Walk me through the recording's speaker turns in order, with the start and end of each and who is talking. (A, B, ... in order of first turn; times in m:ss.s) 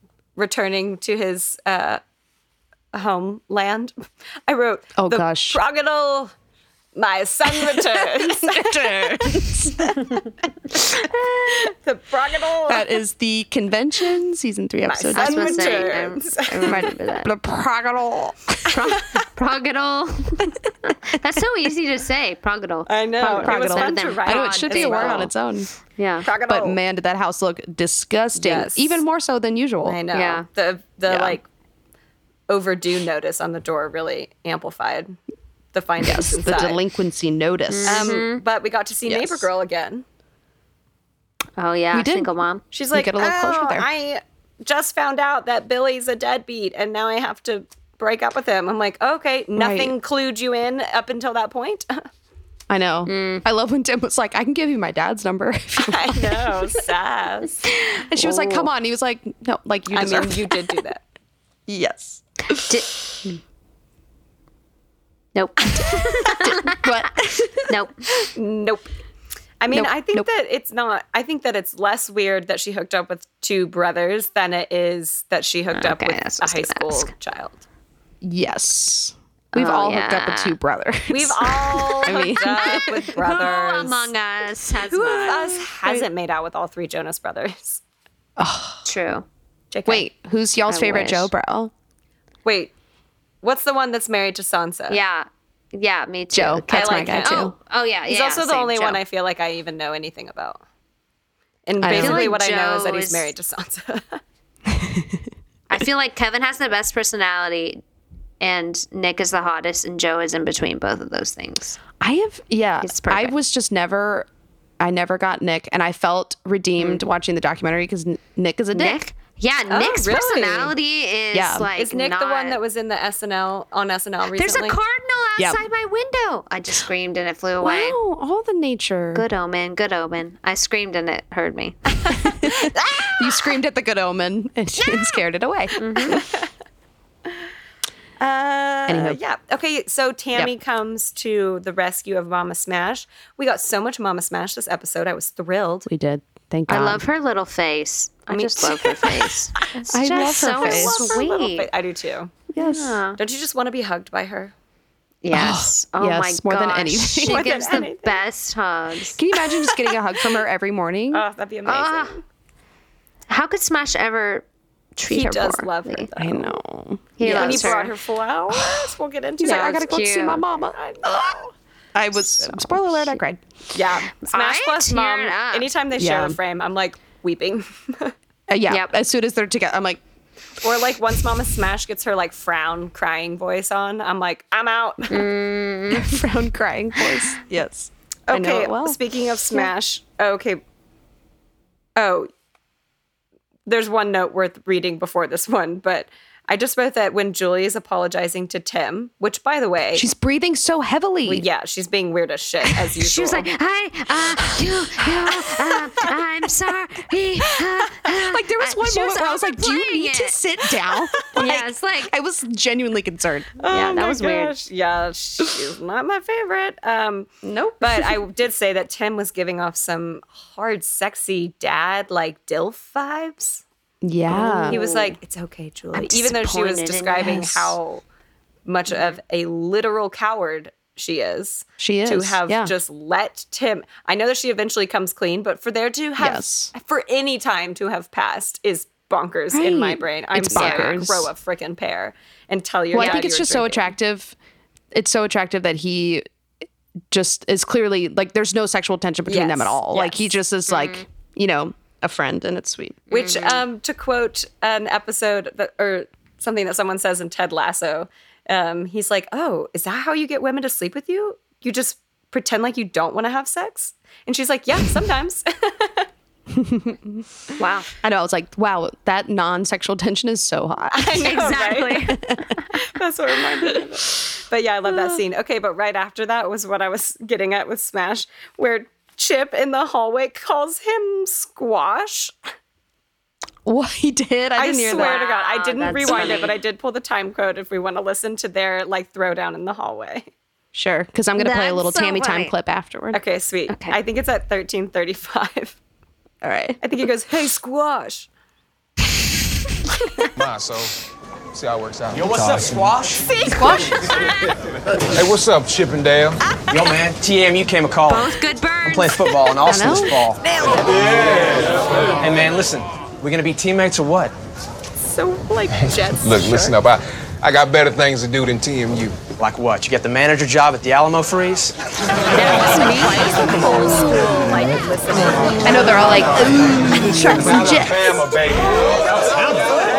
0:00.4-0:02.0 A
0:02.9-0:03.9 A
0:04.5-0:06.3 A
0:05.0-0:05.6 B
0:07.0-0:09.8 A
0:07.8-0:10.0 B
0:10.8-0:12.9 A
0:12.7-0:16.0 B
0:14.9-0:16.9 A
0:15.1-0:17.3 C
0:16.6-0:19.0 B
0:18.7-0:25.3 C
0:22.9-0:25.3 A
0:23.3-0:25.7 B
0:26.0-0:26.3 C
0:26.2-0:26.8 A
0:26.4-0:30.0 B
0:28.3-0:29.0 A
0:29.8-0:31.4 A
0:30.1-0:30.4 C
0:31.1-0:31.4 B
0:32.5-0:35.2 A
0:35.7-0:36.8 A
0:36.0-0:38.2 B
0:37.7-0:38.4 C
0:37.8-0:40.0 A
0:39.1-0:39.5 B
0:41.6-0:42.6 C
0:41.9-0:42.3 B
0:42.7-0:52.0 A
0:42.9-0:43.9 B
0:49.6-0:49.9 B
0:52.7-0:56.7 B
0:53.0-0:53.4 C
0:55.8-0:57.6 A
0:58.0-1:00.6 B
0:58.2-0:58.7 C
0:59.9-1:01.0 A
1:01.7-1:02.9 B
1:02.7-1:03.4 C
1:05.3-1:06.8 C
1:05.8-1:07.7 B
1:07.7-1:08.0 C
1:08.2-1:08.9 A
1:09.6-1:17.6 A
1:09.7-1:10.3 B
1:15.7-1:17.1 C
1:18.2-1:23.0 B
1:19.5-1:20.6 C
1:21.1-1:24.1 A
1:22.6-1:25.6 C
1:24.9-1:27.8 A
1:25.8-1:26.0 B
1:28.4-1:28.8 B
1:28.8-1:29.2 C
1:29.7-1:30.0 A
1:29.8-1:31.7 B
1:30.7-1:31.3 C
1:32.4-1:32.7 A
1:33.4-1:35.0 A
1:34.9-1:39.0 C
1:36.3-1:37.5 B
1:36.7-1:37.5 A
1:38.1-1:40.6 A
1:41.6-1:44.2 A
1:41.8-1:42.4 B
1:41.9-1:43.3 C
1:44.7-1:45.2 B
1:45.7-1:47.8 C
1:48.4-1:51.8 C
1:52.0-1:54.3 B
1:52.8-1:53.3 C
1:54.8-1:59.0 B
1:58.7-2:02.6 C
1:59.7-2:00.7 A
2:01.3-2:01.7 B
2:01.7-2:04.8 A
2:04.4-2:08.0 C
2:05.4-2:05.6 B
2:07.6-2:09.2 B
2:09.1-2:11.8 C
2:12.1-2:16.1 B
2:12.5-2:13.3 A
2:15.8-2:16.2 C
2:16.1-2:16.5 A
2:18.2-2:25.9 A
2:18.9-2:19.2 B
2:25.9-2:27.0 B
2:26.7-2:31.7 C
2:28.3-2:32.4 A
2:29.9-2:31.2 B
2:32.5-2:33.0 B
2:32.6-2:33.2 C
2:33.2-2:34.5 A
2:35.2-2:39.2 C
2:35.3-2:37.8 B
2:37.2-2:38.2 A
2:39.2-2:41.2 B
2:41.1-2:42.2 A
2:41.7-2:42.2 C
2:43.3-2:44.4 C
2:45.0-2:46.1 C
2:45.1-2:46.6 A
2:46.2-2:47.8 B
2:47.2-2:47.9 C
2:47.2-2:50.0 A
2:48.5-2:50.8 B
2:49.4-2:50.4 C
2:50.7-2:51.5 A
2:51.9-2:53.4 B
2:52.9-2:53.2 C
2:53.7-2:58.1 A
2:54.2-2:55.7 C
2:56.0-2:56.4 B
2:58.5-3:00.0 B
2:58.7-2:59.0 C
3:00.6-3:05.2 A
3:05.1-3:06.2 C
3:05.9-3:09.0 B
3:08.3-3:10.6 A
3:12.0-3:12.3 A
3:13.7-3:20.1 A
3:19.9-3:21.4 B
3:21.2-3:23.5 A
3:23.0-3:30.4 C
3:28.0-3:33.6 B
3:31.3-3:32.1 C
3:33.6-3:43.6 A
3:33.7-3:34.5 C
3:37.4-3:38.2 B
3:44.0-3:44.8 B
3:44.3-3:48.0 A
3:44.3-3:45.2 C
3:46.0-3:47.7 C
3:48.6-4:03.9 A
3:51.8-3:52.7 B
3:56.2-3:56.7 B
3:59.5-4:01.3 B
4:00.5-4:00.9 C
4:02.9-4:04.3 B
4:02.9-4:03.2 C
4:04.9-4:06.2 B
4:07.1-4:13.1 B
4:09.2-4:10.3 A
4:10.7-4:11.0 C
4:13.1-4:13.6 C
4:13.1-4:26.1 A
4:26.5-4:27.2 B
4:27.6-4:27.9 C
4:28.0-4:32.4 B
4:30.9-4:32.2 A
4:31.2-4:32.4 C
4:32.7-4:42.3 A
4:34.9-4:35.2 B
4:43.6-4:45.2 B
4:44.6-4:50.3 A
4:44.9-4:46.5 C
4:46.0-4:46.4 B
4:50.7-4:53.2 B
4:51.4-4:52.5 C
4:53.1-4:55.8 A
4:53.7-4:54.0 C
4:56.4-4:56.8 B
4:56.8-4:58.3 A
5:00.4-5:00.9 D
5:01.5-5:02.8 D
5:02.1-5:03.1 E
5:03.2-5:04.3 A
5:03.5-5:04.0 B
5:05.1-5:06.4 D
5:06.7-5:08.2 E
5:08.1-5:09.3 C
5:08.9-5:10.4 E
5:09.6-5:10.3 B
5:10.4-5:11.2 A
5:12.2-5:14.3 E
5:15.0-5:16.8 A
5:16.2-5:19.2 D
5:19.4-5:21.7 E
5:22.3-5:26.1 A
5:22.6-5:23.4 C
5:25.6-5:28.3 B
5:27.7-5:28.6 D